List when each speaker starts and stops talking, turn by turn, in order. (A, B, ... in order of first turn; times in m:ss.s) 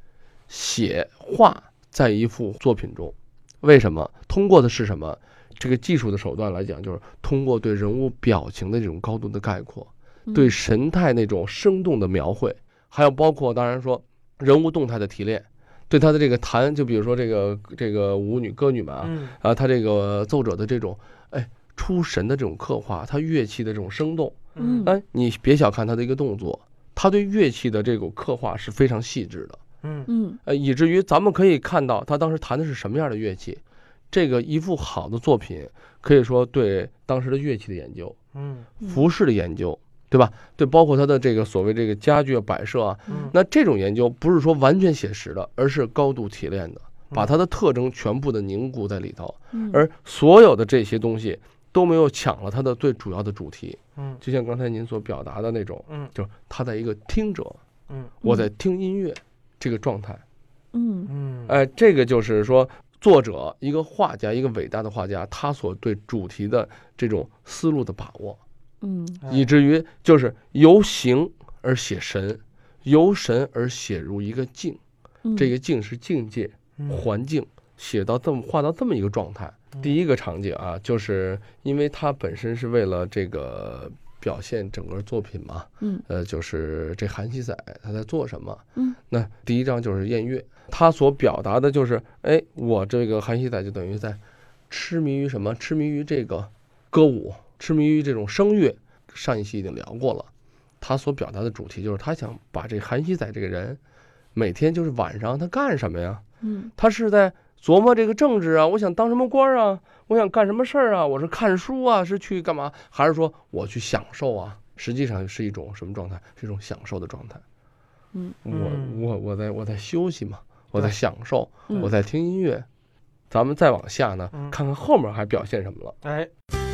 0:00.5-0:29.6 A
0:10.3-0:10.6 B
0:19.0-0:19.4 C
0:24.6-0:24.9 C
0:24.6-0:24.9 B
0:29.8-0:30.1 C
0:30.1-0:30.4 B
0:30.4-0:38.2 A
0:38.3-0:38.7 C
0:38.8-0:57.6 A
0:49.5-0:49.8 B
0:58.2-1:00.2 A
1:00.7-1:01.1 B
1:01.1-1:01.6 C
1:01.5-1:08.4 A
1:08.8-1:09.2 B
1:09.2-1:09.5 C
1:09.3-1:14.8 A
1:15.2-1:15.5 B
1:15.4-1:40.3 A
1:40.8-1:43.8 A
1:44.4-1:46.2 A
1:46.4-1:46.7 B
1:46.8-1:57.4 A
1:58.4-2:02.7 A
1:58.5-1:59.0 C
2:03.3-2:06.0 A
2:06.0-2:06.3 C